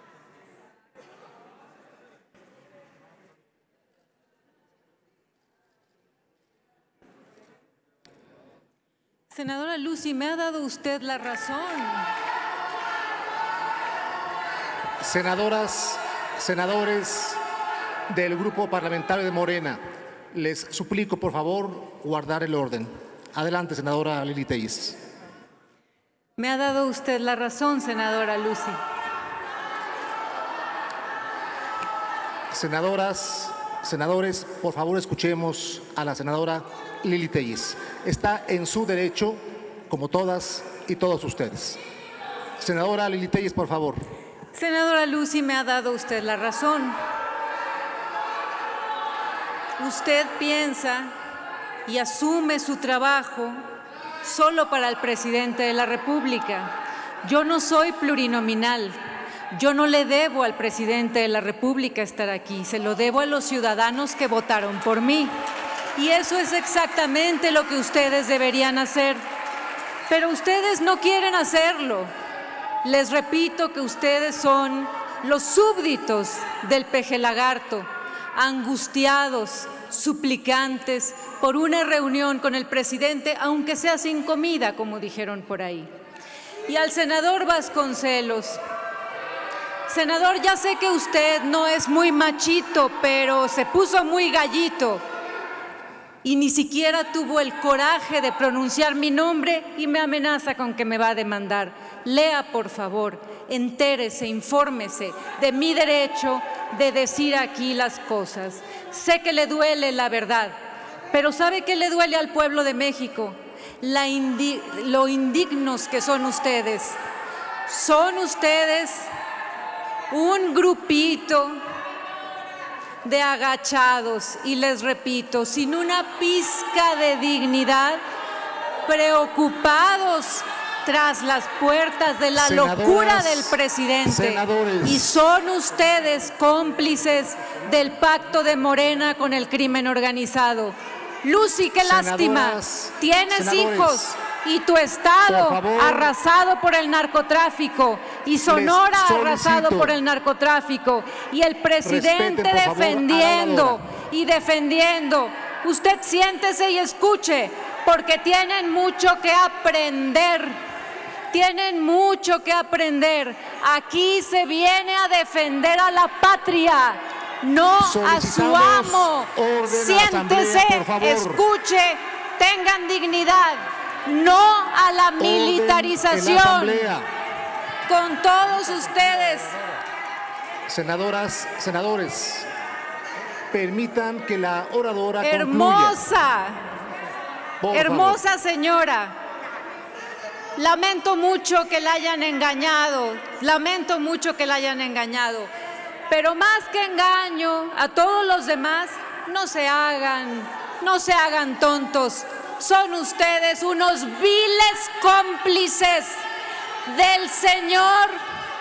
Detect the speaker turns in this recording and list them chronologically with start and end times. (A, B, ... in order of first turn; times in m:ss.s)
0:09.3-0:12.1 A
0:15.0-0:17.4 B
0:18.1-0:19.8 B
0:20.3-0:25.0 B
0:26.4-0:28.8 A
0:32.5-0:41.8 B
0:42.6-0:44.0 B
0:44.5-0:47.0 A
0:49.8-0:51.1 A
0:51.9-0:53.6 A
0:54.2-0:59.0 A
0:59.5-1:05.3 A
1:06.0-1:09.2 A
1:10.1-1:12.1 A
1:12.8-1:25.9 A
1:26.7-1:28.6 A
1:29.9-1:35.0 A
1:36.2-1:50.6 A
1:51.1-1:57.0 A
1:57.7-1:59.1 A
2:00.1-2:01.6 A
2:03.0-2:08.0 A
2:08.8-2:40.6 A
2:12.4-2:15.1 B
2:21.8-2:24.1 B
2:25.3-2:26.1 B
2:28.5-2:30.0 B
2:31.8-2:33.8 B
2:41.3-2:56.9 A
2:47.8-2:51.4 B
2:55.2-2:57.1 B
2:57.9-2:59.6 A
3:00.7-3:02.5 B
3:03.5-3:06.0 B
3:05.2-3:06.6 A
3:07.6-3:08.2 B
3:07.7-3:09.2 A
3:10.6-3:15.5 A
3:16.1-3:26.2 A
3:26.8-3:28.2 A